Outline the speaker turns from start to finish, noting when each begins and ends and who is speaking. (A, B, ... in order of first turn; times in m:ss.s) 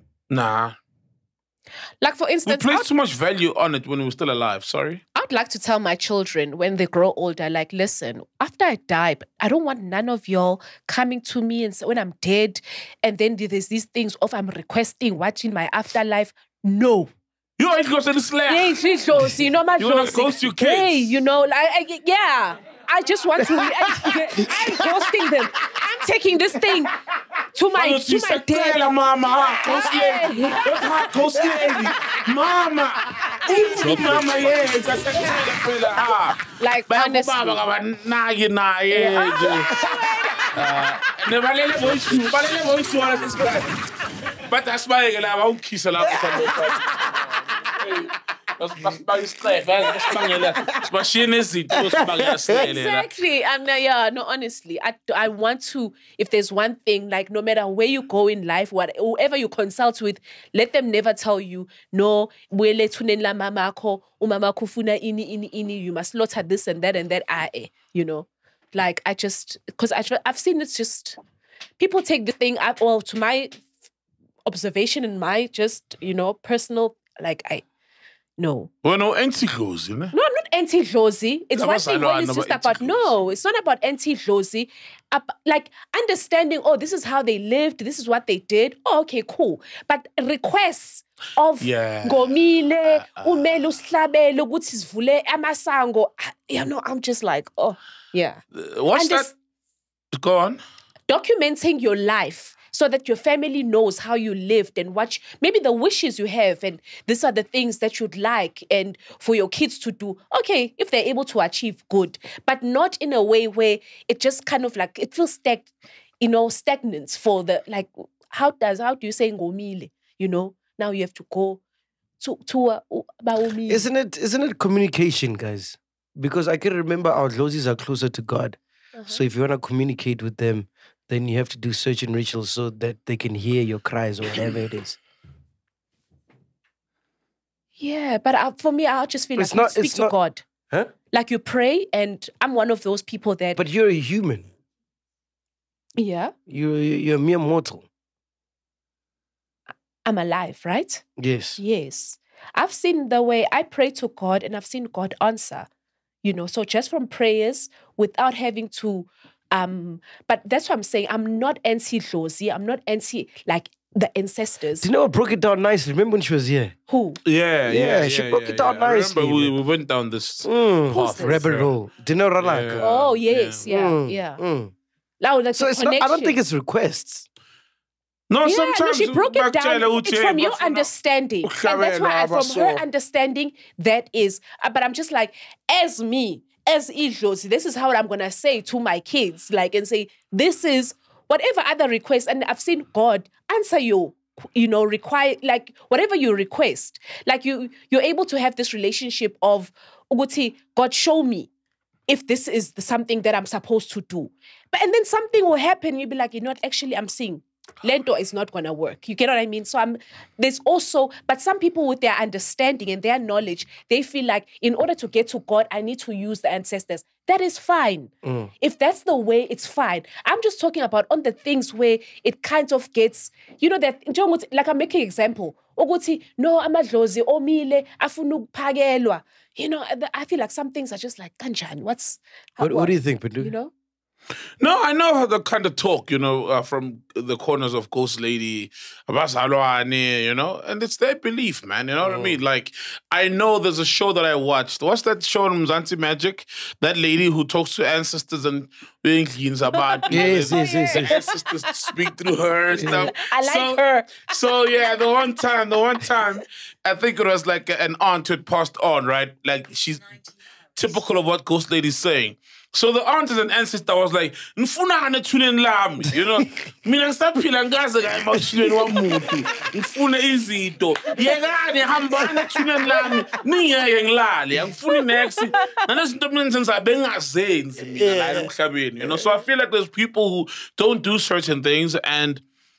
0:00.3-0:00.8 A
0:02.0-0:02.9 B
0:02.4-0:05.0 A
0:05.2-0:17.1 B
0:17.6-0:18.8 A
0:18.5-0:26.9 B
0:19.8-0:21.2 A
0:23.4-0:25.3 C
0:27.6-0:28.9 B
0:27.7-0:39.8 A
0:29.6-0:30.7 B
0:30.7-0:31.9 C
0:33.4-0:35.4 B
0:33.5-0:34.6 C
0:36.5-0:37.6 B
0:38.9-0:39.6 B
0:39.4-0:40.5 C
0:40.5-0:43.8 A
0:42.0-0:42.3 C
0:44.4-0:53.1 A
0:46.0-0:47.0 C
0:49.9-0:50.8 C
0:51.7-0:52.6 C
0:52.5-1:11.2 B
1:11.8-1:13.6 B
1:14.4-1:17.6 B
1:18.4-1:18.7 B
1:18.8-1:20.1 A
1:20.1-1:38.4 B
1:21.5-1:23.2 A
1:31.6-1:33.5 A
1:38.5-1:39.3 A
1:38.9-1:39.3 B
1:40.1-1:40.6 A
1:41.1-2:01.6 B
2:02.2-2:03.9 B
2:03.7-2:15.0 C
2:08.9-2:09.2 B
2:17.8-2:20.4 B
2:19.4-2:20.2 C
2:21.1-2:23.6 B
2:23.6-2:24.4 C
2:26.0-2:26.3 B
2:26.5-2:27.9 C
2:30.0-2:31.0 B
2:31.2-2:31.6 C
2:31.6-2:35.7 B
2:36.2-2:44.9 B
2:44.8-2:46.7 C
2:46.9-2:47.2 B
2:47.3-2:51.7 A
2:47.7-2:49.6 C
2:50.4-2:52.9 C
2:50.9-2:51.4 B
2:52.4-2:53.6 A
2:52.8-2:54.4 B
2:53.6-2:54.7 C
2:55.2-2:56.4 B
2:55.5-2:57.3 C
2:58.3-3:00.9 A
2:58.4-3:21.5 B
3:01.4-3:02.8 A
3:22.1-3:53.7 B
3:38.2-3:38.5 C
3:52.6-3:53.5 C
3:54.6-4:20.2 A
4:02.0-4:02.4 C
4:10.0-4:11.2 B
4:10.1-4:11.2 C
4:12.7-4:13.1 C
4:12.9-4:14.3 B
4:20.7-4:42.4 A
4:28.4-4:28.8 C
4:32.2-4:33.1 C
4:37.8-4:39.3 C